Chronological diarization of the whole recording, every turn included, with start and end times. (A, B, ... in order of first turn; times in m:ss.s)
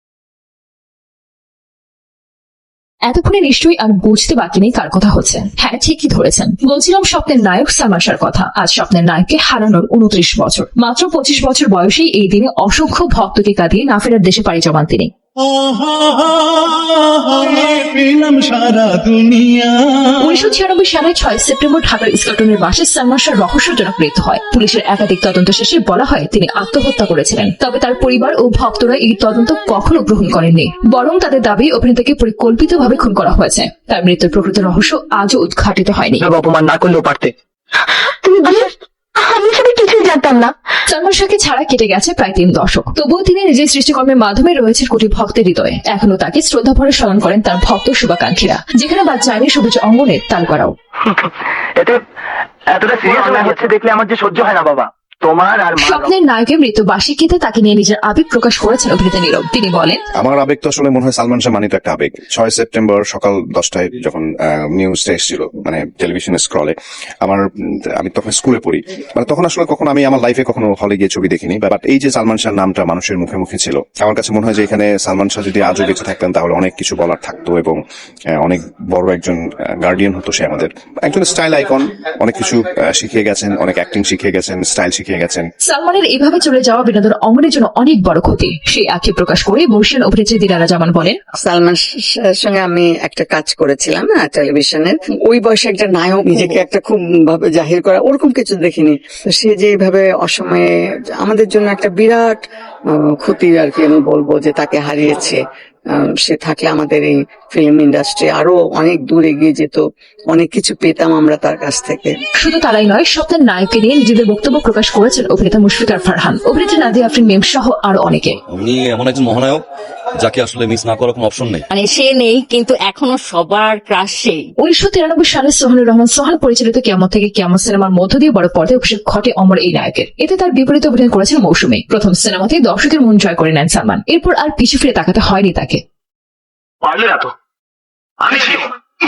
0:03.0-0:15.1 A
0:15.4-0:20.4 B
0:20.2-0:36.2 A
0:36.2-0:37.3 C
0:38.2-0:38.7 C
0:39.2-0:40.5 C
0:40.9-0:50.7 A
0:51.8-0:52.0 C
0:52.7-0:56.1 C
0:55.8-1:00.0 A
1:00.1-1:07.4 D
1:08.0-1:17.8 D
1:18.3-1:25.5 D
1:25.6-1:31.2 A
1:31.4-1:42.4 E
1:43.1-1:45.4 E
1:45.9-1:52.1 E
1:52.4-1:58.4 A
1:58.5-1:59.6 F
2:00.2-2:01.6 F
2:01.7-2:04.5 G
2:04.6-2:15.8 A
2:16.8-2:17.3 C
2:18.2-2:18.7 C